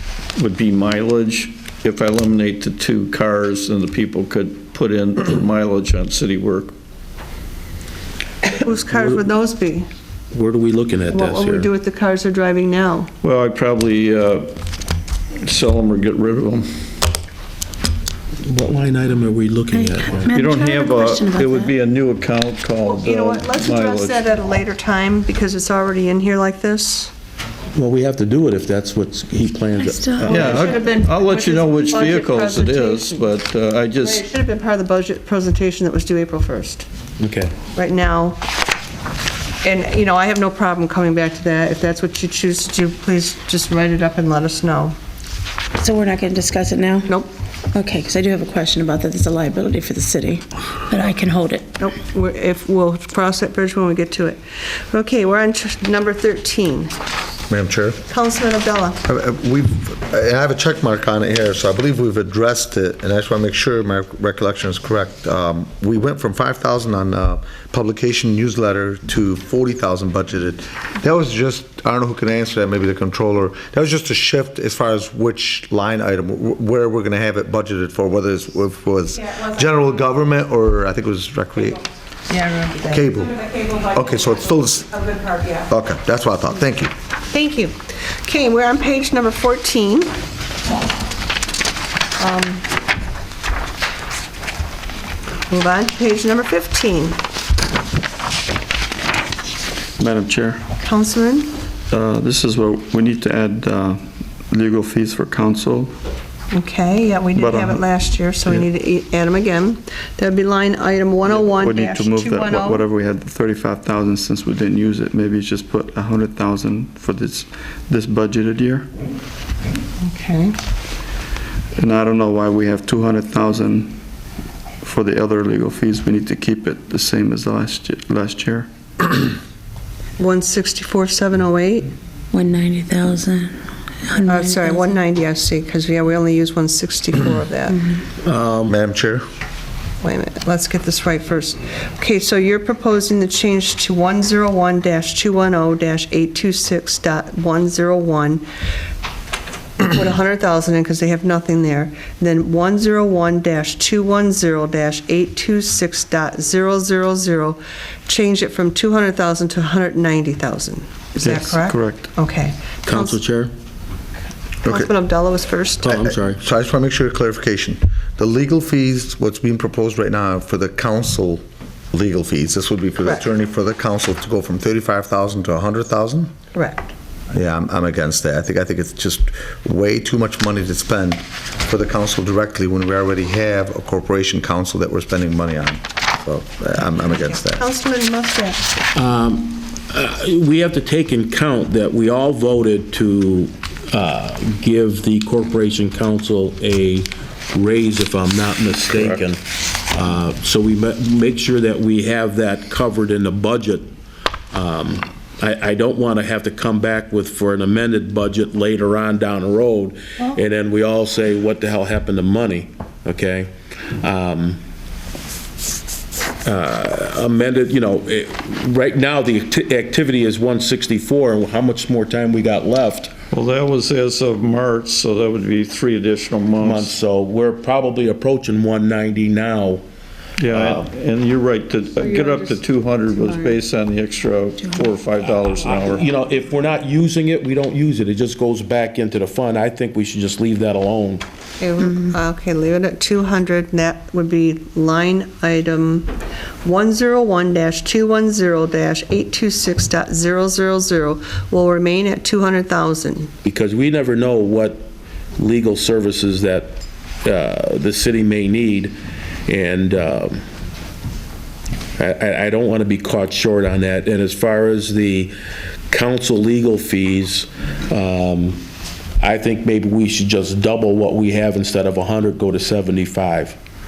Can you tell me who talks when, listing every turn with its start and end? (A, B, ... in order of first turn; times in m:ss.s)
0:00.4-0:06.7 A
0:08.5-0:09.8 B
0:08.9-0:09.2 C
0:10.3-0:11.7 C
0:11.1-0:13.1 B
0:13.2-0:14.5 A
0:15.4-0:16.7 A
0:18.4-0:20.3 C
0:19.7-0:21.7 D
0:20.2-0:24.2 A
0:22.8-0:27.1 B
0:27.7-0:30.1 C
0:29.8-0:30.3 D
0:30.2-0:34.2 A
0:30.2-0:33.3 B
0:34.0-0:36.8 B
0:37.2-0:37.5 C
0:37.7-0:38.4 B
0:39.6-0:45.0 B
0:45.8-0:47.1 D
0:47.7-0:51.7 D
0:51.8-0:56.9 B
0:57.5-0:58.0 E
0:58.1-0:59.0 B
0:59.0-1:21.8 E
1:22.3-1:23.1 B
1:22.9-1:26.9 E
1:27.3-1:30.1 B
1:32.2-1:32.6 B
1:35.5-1:37.2 B
1:40.0-1:40.6 F
1:40.8-1:41.5 B
1:41.9-1:45.9 F
1:46.5-1:52.8 B
1:47.4-1:47.8 F
1:51.3-1:58.9 F
2:00.0-2:00.5 B
2:01.8-2:04.0 F
2:04.8-2:08.7 F
2:10.2-2:11.9 B
2:12.3-2:13.5 D
2:14.0-2:14.9 D
2:14.1-2:17.8 B
2:18.2-2:18.7 C
2:18.7-2:19.2 E
2:20.0-2:28.4 B
2:29.8-2:43.2 B
2:41.2-2:42.1 F
2:42.8-2:43.5 C
2:44.6-2:44.9 E
2:44.6-2:45.9 B
2:45.8-2:46.4 C
2:45.9-2:56.3 E
2:56.5-2:56.9 B
2:57.3-3:07.6 E
3:07.6-3:08.6 B
3:08.9-3:23.9 C
3:24.5-3:34.6 C
3:36.4-3:43.1 C
3:43.3-3:46.9 A
3:46.6-3:49.8 C
3:50.4-3:56.1 A
3:50.5-3:50.9 C
3:52.0-3:53.6 B
3:55.3-4:01.2 C
4:01.6-4:06.1 B
4:06.6-4:13.3 B
4:13.4-4:18.9 C
4:19.5-4:20.4 C
4:22.0-4:25.3 C
4:25.9-4:28.6 C
4:29.2-4:33.6 C